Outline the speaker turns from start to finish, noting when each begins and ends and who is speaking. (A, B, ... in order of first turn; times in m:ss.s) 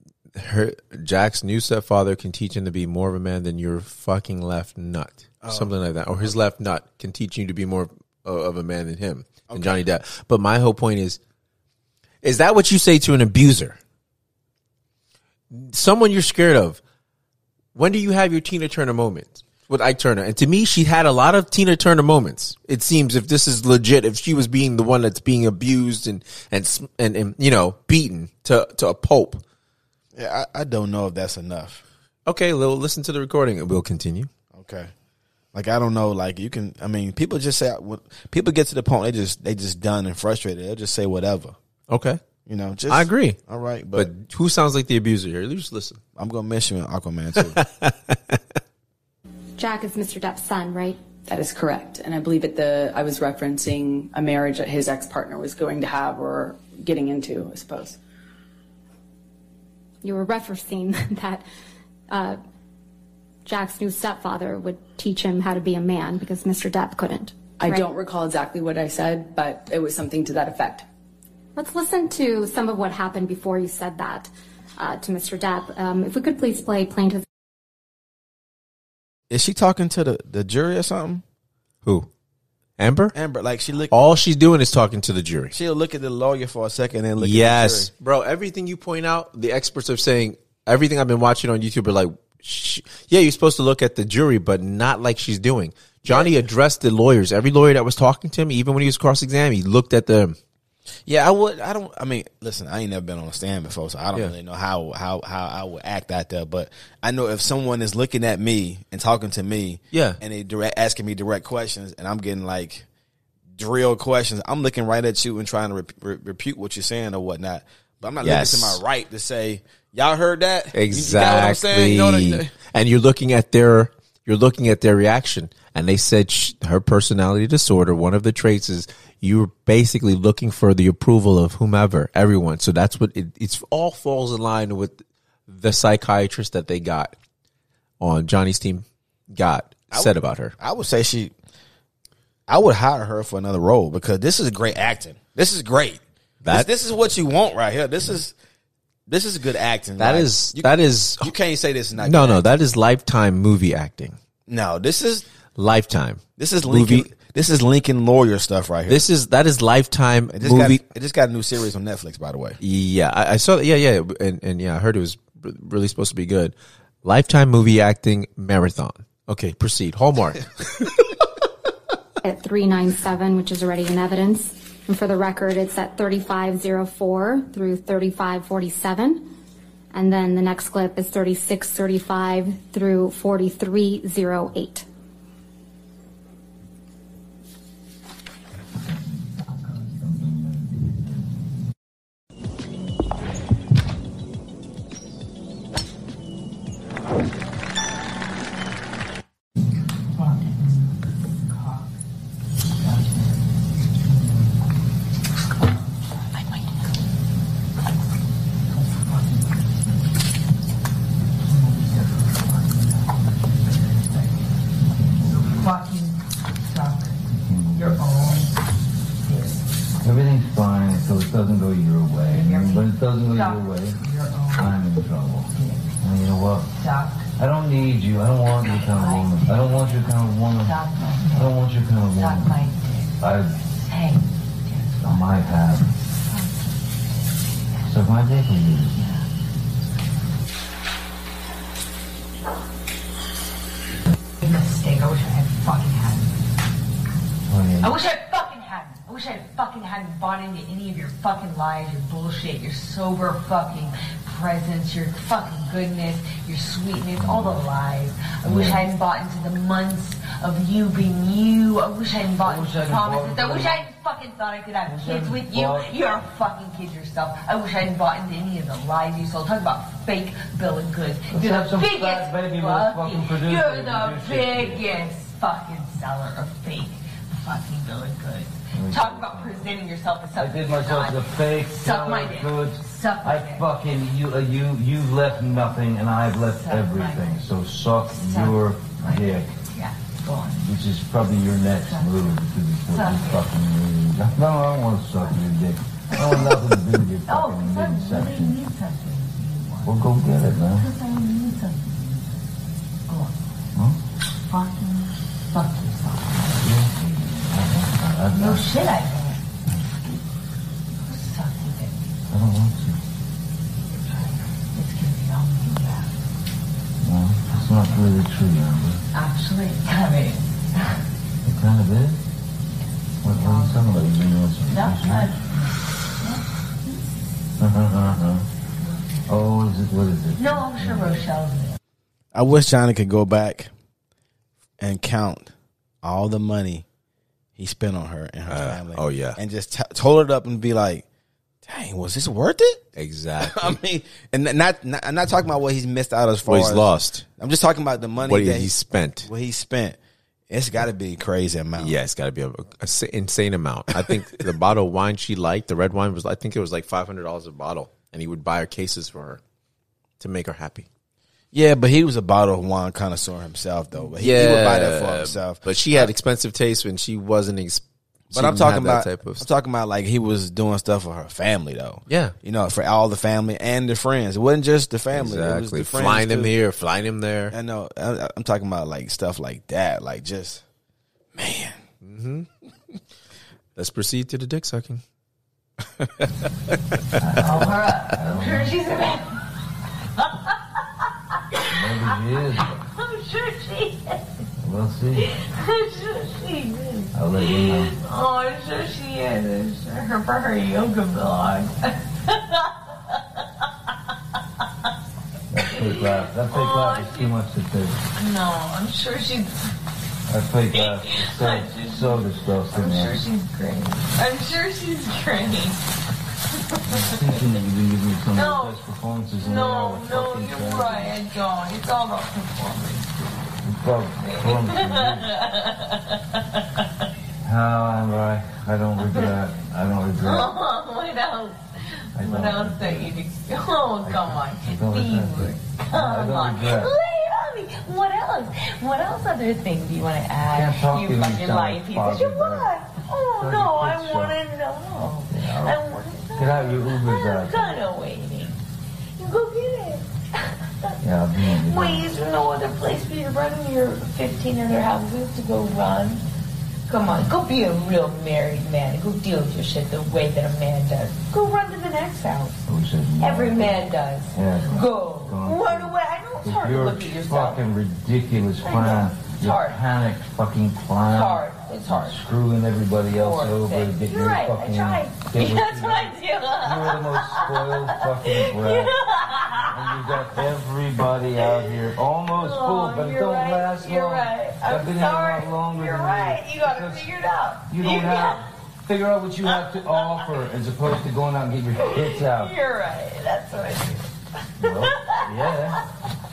0:00.4-0:11.2 A
0:05.4-0:05.7 B
0:09.5-0:09.8 B
0:12.2-0:13.8 A
0:15.5-0:16.8 A
0:17.8-0:29.4 A
0:30.2-0:31.8 B
0:32.3-0:34.3 A
0:34.5-0:34.9 B
0:35.5-0:41.6 B
0:41.9-0:42.2 A
0:42.5-0:44.1 B
0:42.9-0:43.4 A
0:44.0-0:46.0 A
0:46.2-0:47.6 B
0:47.5-0:48.4 A
0:49.6-0:51.0 C
0:51.3-0:58.0 D
1:00.0-1:01.4 C
1:02.1-1:02.4 C
1:03.5-1:07.8 C
1:07.6-1:10.9 D
1:11.6-1:17.2 C
1:19.3-1:21.2 B
1:21.8-1:22.1 A
1:22.8-1:23.2 A
1:23.1-1:23.9 B
1:23.9-1:25.5 A
1:25.5-1:27.9 B
1:27.2-1:40.4 A
1:36.1-1:36.3 B
1:41.1-1:52.9 B
1:49.9-1:50.2 A
1:53.6-2:02.5 B
1:58.2-1:58.8 A
2:00.7-2:17.2 A
2:18.0-2:20.6 A
2:19.9-2:21.3 B
2:22.5-2:28.3 B
2:26.4-2:26.7 A
2:29.1-2:32.4 B
2:30.0-2:31.3 A
2:32.0-2:34.2 A
2:34.5-2:35.3 B
2:35.6-2:37.1 A
2:36.4-2:39.1 B
2:38.9-2:40.8 A
2:40.3-2:42.6 B
2:42.6-2:50.9 A
2:52.2-2:59.3 C
2:59.9-3:04.9 C
3:08.9-3:11.0 E
3:20.2-3:21.9 F
3:22.7-3:23.4 F
3:24.0-3:24.5 F
3:26.2-3:26.8 F
3:28.7-3:29.9 F
3:31.4-3:34.5 F
3:35.0-3:35.7 E
3:35.3-3:37.2 F
3:37.3-3:38.4 E
3:37.7-3:38.6 F
3:39.2-3:39.6 F
3:40.0-3:44.0 E
3:42.1-3:44.8 F
3:44.5-3:45.5 E
3:45.5-3:45.9 F
3:46.0-3:46.7 E
3:46.8-3:47.3 F
3:47.4-3:52.6 E
3:48.5-3:51.6 F
3:52.1-3:53.2 F
3:53.2-3:53.5 E
3:53.7-3:56.8 F
3:55.0-3:55.9 E
3:57.9-3:59.0 E
3:59.0-3:59.2 F
4:04.4-4:06.3 F
4:07.5-4:08.0 E
4:07.8-4:43.8 F
4:17.2-4:17.7 E
4:18.4-4:18.9 E
4:22.4-4:23.9 E
4:24.8-4:26.0 E
4:31.3-4:35.2 E
4:38.7-4:39.8 E
4:40.4-4:49.5 E
4:46.4-4:50.7 F
4:50.6-4:58.6 E
4:51.6-4:53.5 F
4:56.1-5:02.4 F
4:59.8-5:00.9 E
5:03.1-5:03.4 F
5:04.5-5:06.8 F
5:06.6-5:08.8 E
5:08.3-5:09.4 F
5:09.7-5:10.2 E
5:10.9-5:12.1 F
5:12.3-5:13.0 E
5:14.1-5:16.1 F
5:17.0-5:19.0 E
5:17.5-5:17.9 F
5:19.1-5:20.9 F
5:21.4-5:22.2 E
5:23.2-5:25.4 E
5:23.2-5:27.0 F
5:27.6-5:28.4 E
5:28.8-5:29.6 F
5:29.3-5:31.2 E
5:30.4-5:31.8 F
5:32.3-5:33.7 B
5:34.8-5:35.5 B
5:36.0-5:36.8 B
5:37.6-5:41.0 B
5:38.5-5:39.4 A
5:41.6-5:42.8 B
5:43.0-5:43.8 A
5:43.4-5:50.0 B
5:46.5-5:47.2 A
5:48.2-5:49.3 A
5:50.5-5:52.0 B
5:51.8-5:59.4 A
6:00.2-6:00.9 A
6:01.5-6:06.1 B
6:04.2-6:09.5 A
6:08.3-6:16.6 B
6:12.1-6:12.4 A
6:15.1-6:17.5 A
6:17.5-6:20.6 B
6:21.4-6:21.8 B
6:22.0-6:22.5 A
6:23.8-6:25.0 A
6:27.2-6:28.8 E
6:27.3-6:29.4 F
6:30.2-6:30.5 F
6:31.7-6:32.7 E
6:31.7-6:34.4 F
6:34.6-6:35.3 E
6:35.1-6:43.2 F
6:37.1-6:37.9 E
6:45.5-6:48.0 E
6:45.6-6:47.4 F
6:48.2-6:49.6 F
6:50.3-6:53.2 E
6:50.7-6:55.8 F
6:56.7-6:57.6 F
6:56.9-7:01.2 E
6:58.3-7:03.1 F
7:03.6-7:05.3 E
7:04.2-7:06.6 F
7:07.4-7:10.6 E
7:09.0-7:09.4 F
7:10.2-7:11.6 F
7:12.2-7:28.6 F
7:12.2-7:13.2 E
7:14.0-7:16.9 E
7:20.5-7:22.7 E
7:23.4-7:24.4 E
7:25.3-7:25.8 E
7:26.4-7:27.8 E
7:29.2-7:36.2 F
7:31.0-7:32.1 E
7:36.9-7:42.6 F
7:42.7-7:58.9 E
7:43.2-7:47.6 F
7:48.6-7:49.9 F
7:51.0-7:52.2 F
7:53.1-8:00.5 F
7:59.7-8:07.1 E
8:01.3-8:08.5 F
8:07.7-8:12.5 E
8:09.4-8:10.5 F
8:11.7-8:14.1 F
8:14.6-8:15.8 E
8:14.6-8:15.9 F